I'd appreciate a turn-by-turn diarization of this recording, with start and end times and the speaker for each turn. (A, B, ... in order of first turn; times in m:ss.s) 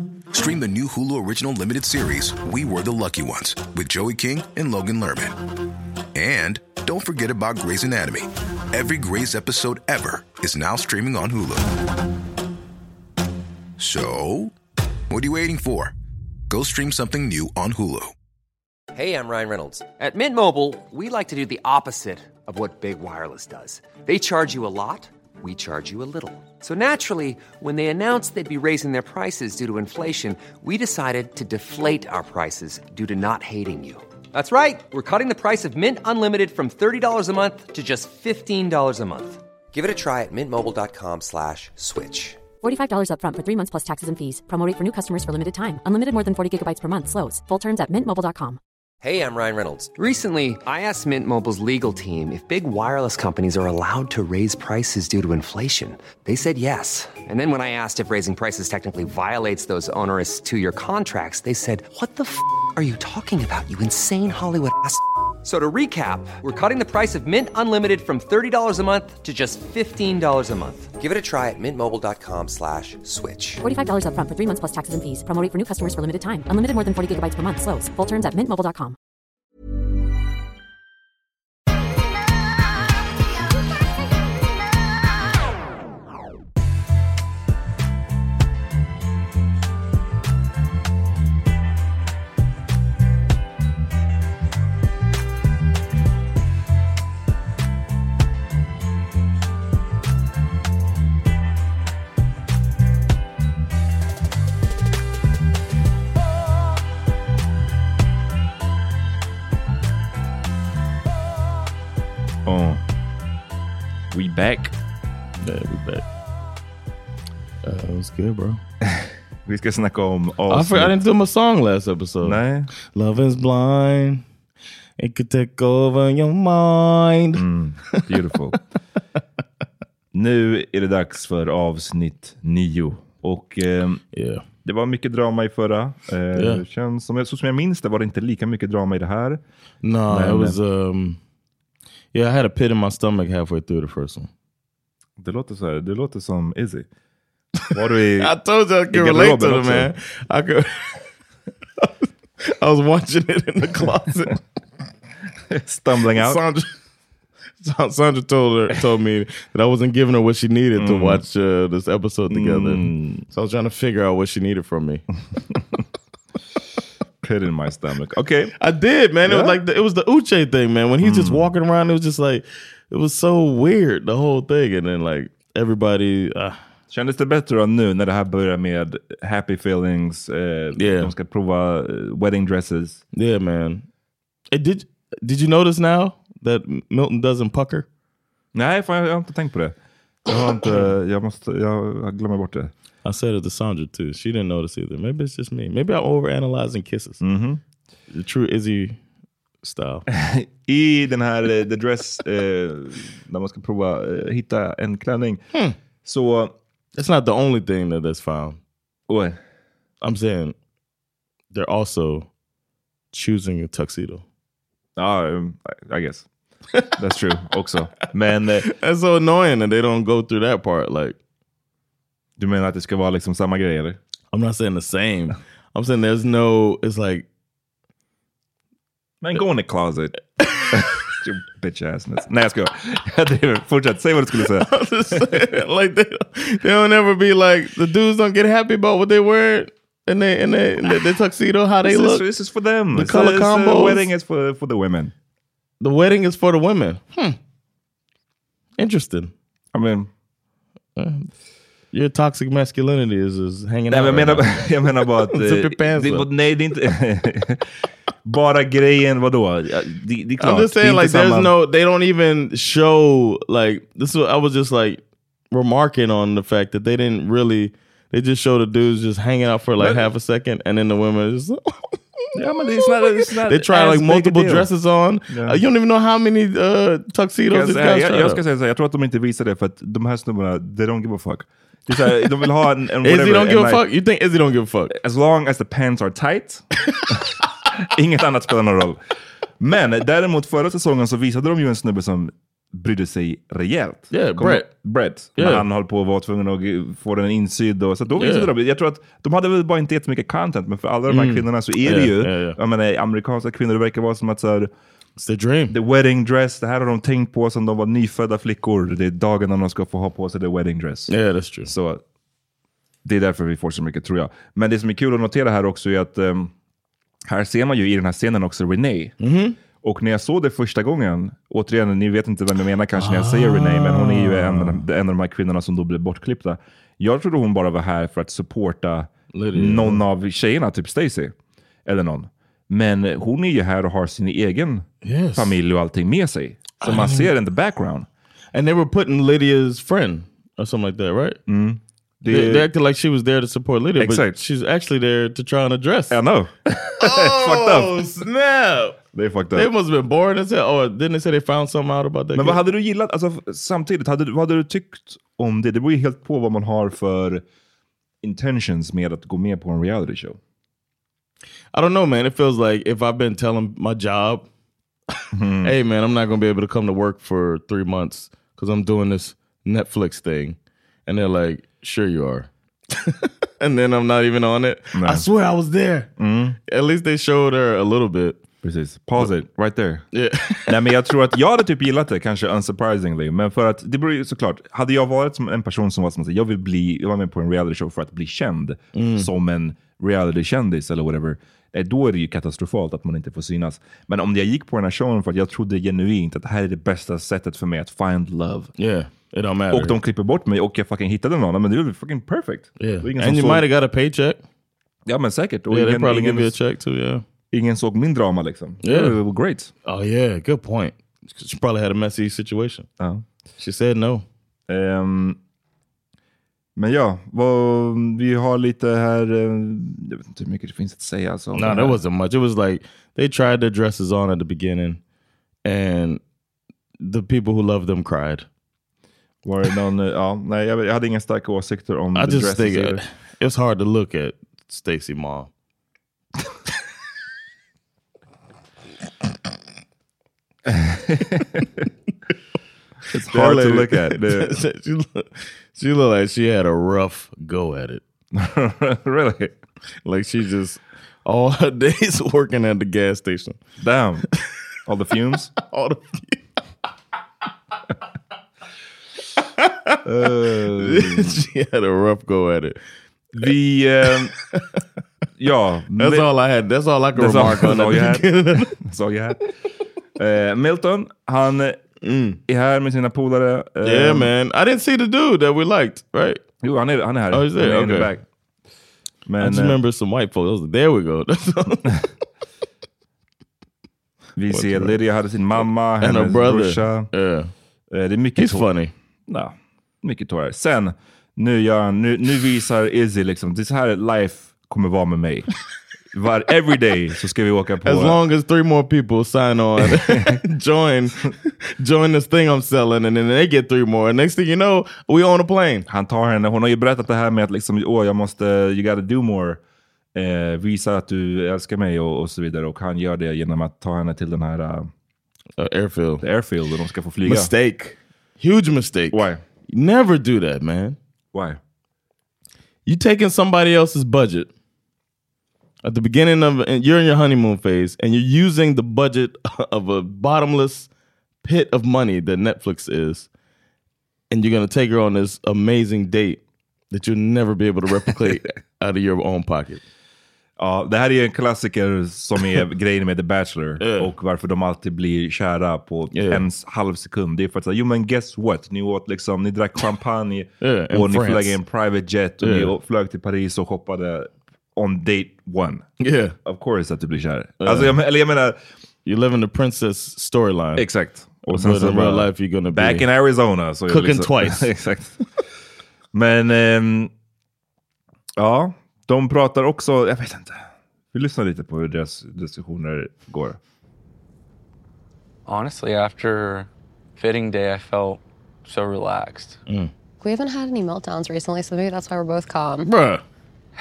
0:00.3-0:05.4 A
0:06.1-0:11.7 A
0:13.8-0:14.5 A
0:15.1-0:15.9 A
0:16.5-0:18.1 A
0:18.9-0:42.4 B
0:42.6-0:48.6 C
0:49.0-1:13.6 B
1:13.6-1:19.0 C
1:52.4-1:52.8 D
1:54.1-1:54.7 D
1:55.4-1:56.0 E
1:57.6-1:58.6 E
1:58.8-2:01.0 D
2:00.5-2:02.4 E
2:02.2-2:02.7 D
2:02.9-2:04.2 E
2:05.0-2:07.4 E
2:07.3-2:08.6 D
2:10.1-2:14.0 D
2:14.1-2:14.4 E
2:14.6-2:19.4 D
2:16.3-2:16.6 E
2:19.8-2:21.2 E
2:20.1-2:20.6 D
2:22.1-2:24.3 E
2:25.2-2:26.9 D
2:27.6-2:31.0 E
2:27.7-2:28.4 D
2:28.9-2:29.9 D
2:32.4-2:34.4 E
2:35.5-2:36.4 D
2:36.2-2:36.7 E
2:37.6-2:45.0 E
2:40.8-2:41.2 D
2:42.3-2:43.2 D
2:47.2-2:48.5 D
2:48.6-2:56.6 E
2:49.2-2:49.6 D
2:51.0-2:51.5 D
2:56.9-3:03.0 D
3:00.8-3:01.1 E
3:03.1-3:03.8 E
3:04.5-3:07.9 E
3:08.5-3:12.7 D
3:13.0-3:17.2 E
3:17.2-3:17.6 D
3:18.1-3:19.0 E
3:19.6-3:20.1 E
3:20.1-3:25.4 D
3:26.0-3:26.6 D
3:27.0-3:28.6 E
3:29.1-3:29.4 D
3:30.0-3:30.6 E
3:31.5-3:32.3 E
3:33.1-3:34.2 E
3:35.0-3:36.2 D
3:37.0-3:38.7 D
3:38.6-3:41.2 E
3:42.4-3:44.0 D
3:44.3-3:47.3 E
3:49.2-3:55.5 D
3:54.4-4:02.2 E
4:01.8-4:05.1 D
4:02.9-4:04.1 E
4:05.8-4:07.4 E
4:08.8-4:09.3 E
4:09.7-4:10.1 D
4:11.0-4:11.3 E
4:11.9-4:16.3 E
4:13.9-4:17.7 D
4:18.2-4:21.5 D
4:20.4-4:38.4 E
4:29.8-4:30.1 D
4:32.3-4:34.7 D
4:35.3-4:35.6 D
4:37.5-4:43.8 D
4:43.0-4:44.9 E
4:44.9-4:49.0 D
4:49.6-5:04.7 D
4:54.1-4:54.7 E
4:55.4-4:55.6 E
4:58.2-4:58.5 E
5:01.1-5:02.6 E
5:05.2-5:05.8 E
5:05.7-5:11.1 D
5:11.1-5:11.7 E
5:11.6-5:12.0 D
5:13.0-5:16.5 D
5:17.3-5:19.1 D
5:19.2-5:19.6 E
5:19.8-5:31.3 D
5:22.9-5:24.8 E
5:29.3-5:30.0 E
5:31.8-5:38.1 D
5:35.0-5:35.6 E
5:36.8-5:37.3 E
5:38.5-5:41.4 E
5:41.5-5:42.7 D
5:42.3-5:46.2 E
5:44.0-5:44.4 D
5:46.1-5:48.1 D
5:47.0-5:49.0 E
5:49.1-5:49.7 D
5:49.5-5:52.6 E
5:52.3-5:57.4 D
5:58.2-6:00.4 D
6:01.7-6:04.5 E
6:05.3-6:05.8 D
6:05.6-6:16.1 E
6:14.9-6:15.2 D
6:16.2-6:16.6 D
6:16.7-6:18.4 E
6:18.6-6:20.1 D
6:20.1-6:20.8 E
6:20.7-6:38.7 D
6:28.9-6:29.3 E
6:38.8-6:40.0 E
6:39.7-6:43.6 D
6:42.8-6:44.4 E
6:45.0-6:46.5 D
6:45.7-6:47.2 E
6:47.5-6:49.7 D
6:48.8-6:49.2 E
6:49.8-6:52.9 E
6:53.0-6:53.2 D
6:53.6-6:54.2 E
6:54.7-6:55.4 D
6:56.8-7:02.0 D
7:01.5-7:05.0 E
7:05.6-7:06.2 E
7:07.0-7:08.5 E
7:09.4-7:13.0 D
7:12.1-7:15.5 E
7:20.6-7:21.8 D
7:23.1-7:24.5 D
7:23.1-7:28.0 E
7:28.3-7:29.6 D
7:30.0-7:33.6 E
7:33.8-7:34.3 D
7:34.8-7:35.5 D
7:35.6-7:36.4 E
7:39.4-7:40.0 E
7:40.0-7:41.4 D
7:40.7-7:42.8 E
7:43.3-7:44.3 D
7:45.4-7:46.3 D
7:46.0-7:48.7 E
7:47.1-7:49.4 D
7:50.2-7:51.8 D
7:52.0-7:52.4 E
7:52.4-7:54.3 D
7:53.8-7:56.4 E
7:56.6-7:58.2 D
7:57.3-7:58.1 E
7:59.3-7:59.8 D
7:59.4-8:02.0 E
8:04.4-8:07.1 D
8:04.5-8:05.0 E
8:06.0-8:07.5 E
8:07.9-8:08.7 D
8:08.4-8:08.9 E
8:09.3-8:15.5 D
8:16.1-8:18.2 D
8:17.8-8:25.8 E
8:19.8-8:20.4 D
8:25.9-8:29.6 D
8:30.1-8:34.9 D
8:35.6-8:36.2 E
8:36.2-8:37.5 D
8:37.2-8:41.0 E
8:39.1-8:39.4 D
8:41.3-8:41.6 D
8:42.8-8:44.5 E
8:45.8-8:50.9 E
8:51.4-8:53.3 E
8:54.3-8:59.8 E
9:00.6-9:15.9 D
9:03.8-9:04.1 E
9:06.1-9:06.4 E
9:10.6-9:11.6 E
9:12.4-9:12.7 E
9:16.0-9:16.4 E
9:16.4-9:18.6 D
9:17.6-9:17.9 E
9:19.0-9:20.8 E
9:20.8-9:25.2 D
9:21.5-9:23.0 E
9:23.9-9:24.7 E
9:26.1-9:27.1 D
9:28.4-9:33.6 D
9:35.4-9:39.6 F
9:40.2-9:42.9 G
9:42.8-9:43.2 E